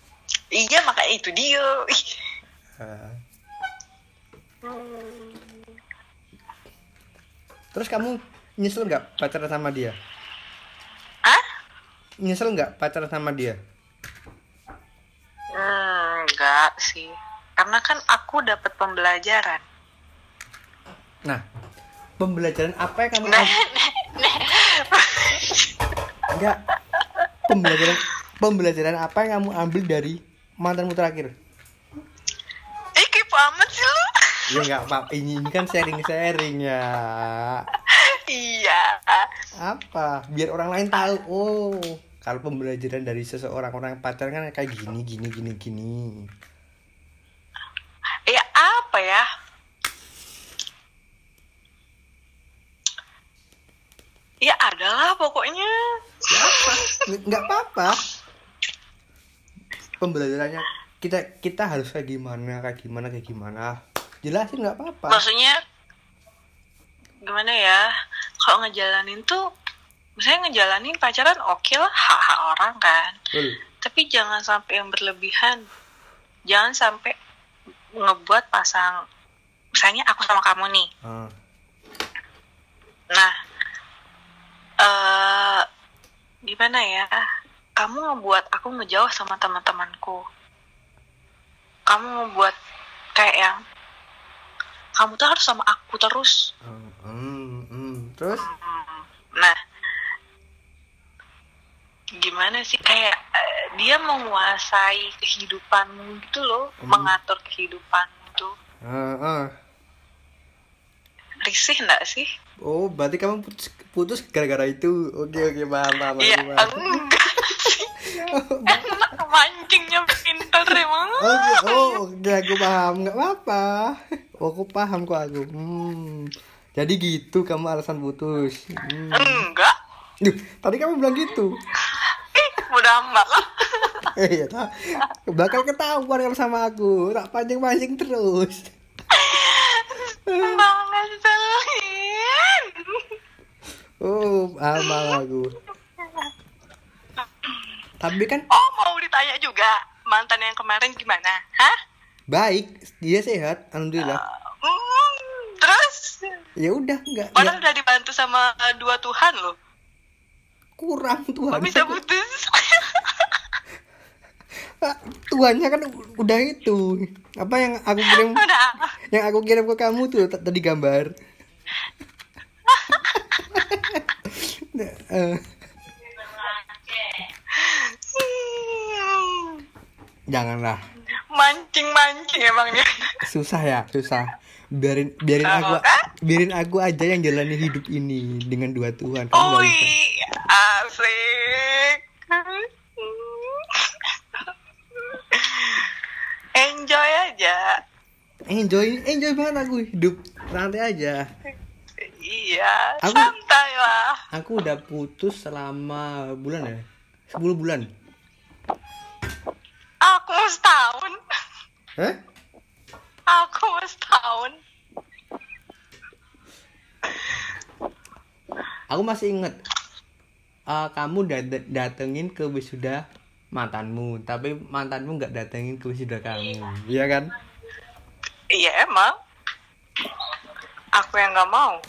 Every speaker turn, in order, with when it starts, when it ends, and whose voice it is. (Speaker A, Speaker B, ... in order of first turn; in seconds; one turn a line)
Speaker A: 0.6-2.2
Speaker B: 2.8-3.2
Speaker A: 4.6-5.7
Speaker B: 7.7-9.9
Speaker B: 12.2-13.6
Speaker A: 15.5-19.6
Speaker B: 22.2-23.6
Speaker A: 23.3-25.8
Speaker B: 26.3-26.6
Speaker A: 27.0-28.0
Speaker B: 27.5-31.3
Speaker A: 33.0-34.6
Speaker B: 34.5-37.7
Speaker A: 37.8-39.3
Speaker B: 39.6-46.3
Speaker A: 48.3-49.3
Speaker A: 54.4-55.9
Speaker B: 56.3-58.0
Speaker A: 56.4-57.0
Speaker B: 60.0-65.2
Speaker A: 65.1-65.6
Speaker A: 67.3-67.9
Speaker A: 68.4-69.4
Speaker A: 70.2-73.2
Speaker A: 73.8-75.6
Speaker A: 76.5-77.1
Speaker A: 78.0-79.0
Speaker A: 79.8-80.9
Speaker B: 81.0-81.3
Speaker A: 84.8-85.6
Speaker A: 86.5-87.1
Speaker A: 87.8-90.2
Speaker A: 91.9-92.5
Speaker A: 93.2-93.6
Speaker A: 95.0-96.4
Speaker B: 96.6-98.5
Speaker A: 98.3-99.6
Speaker A: 102.2-108.5
Speaker B: 106.8-107.1
Speaker B: 108.8-109.5
Speaker A: 111.4-112.3
Speaker B: 112.6-117.0
Speaker A: 116.2-122.0
Speaker B: 118.3-119.0
Speaker B: 121.2-129.4
Speaker A: 129.1-129.7
Speaker B: 130.2-131.5
Speaker A: 131.8-134.1
Speaker B: 134.1-138.7
Speaker A: 139.1-143.2
Speaker B: 140.3-140.7
Speaker B: 144.0-145.6
Speaker A: 144.8-145.2
Speaker B: 148.0-148.5
Speaker A: 148.5-151.8
Speaker B: 152.3-154.2
Speaker A: 154.0-156.3
Speaker B: 156.6-157.6
Speaker A: 157.3-159.6
Speaker B: 160.8-162.0
Speaker A: 161.5-163.3
Speaker B: 164.8-168.4
Speaker A: 168.0-169.0
Speaker B: 169.1-171.1
Speaker A: 172.7-173.6
Speaker B: 173.1-175.5
Speaker A: 176.2-179.6
Speaker B: 180.3-180.8
Speaker A: 181.3-183.2
Speaker B: 183.2-189.9
Speaker A: 185.4-186.1
Speaker A: 189.3-195.9
Speaker A: 196.6-197.8
Speaker B: 198.5-201.3
Speaker A: 202.0-204.2
Speaker B: 203.0-203.3
Speaker B: 204.3-207.9
Speaker A: 210.0-211.2
Speaker A: 213.3-214.6
Speaker B: 218.9-219.6
Speaker B: 220.7-223.0
Speaker B: 223.6-227.3
Speaker A: 228.5-229.1
Speaker A: 230.9-231.8